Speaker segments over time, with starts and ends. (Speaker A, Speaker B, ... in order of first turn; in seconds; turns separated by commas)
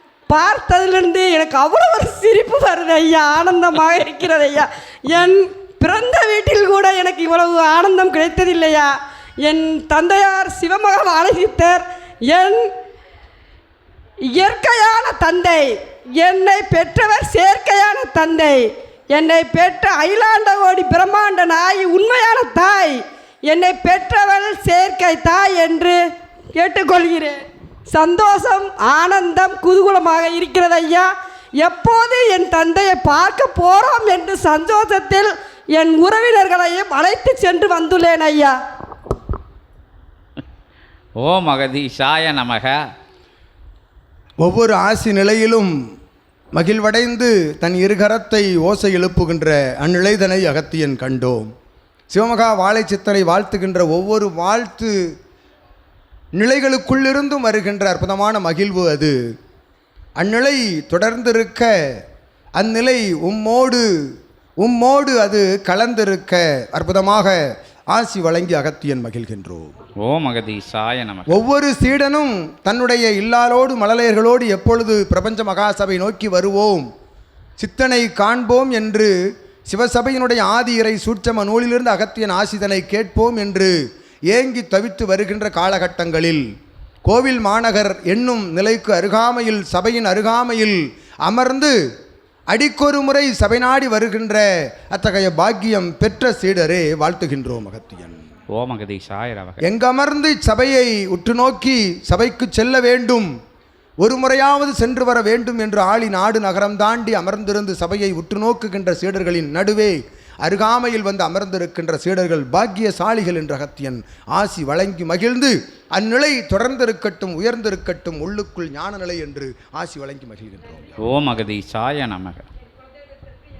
Speaker A: 0.3-12.7, Speaker A: 14.3-26.0, Speaker A: 26.6-31.1, Speaker A: 31.6-38.5, Speaker B: 41.2-42.8, Speaker C: 44.4-45.7, Speaker C: 46.5-51.5, Speaker C: 52.1-54.9, Speaker C: 56.4-59.1, Speaker C: 60.2-61.7, Speaker C: 62.6-63.8, Speaker C: 64.6-67.4, Speaker C: 67.9-69.7, Speaker B: 70.0-71.4, Speaker C: 71.3-76.8, Speaker C: 77.6-79.1, Speaker C: 79.7-83.7, Speaker C: 84.3-86.4, Speaker C: 87.0-91.8, Speaker C: 92.5-98.2, Speaker B: 98.5-99.6, Speaker C: 99.6-103.3, Speaker C: 104.0-121.0, Speaker B: 121.0-122.5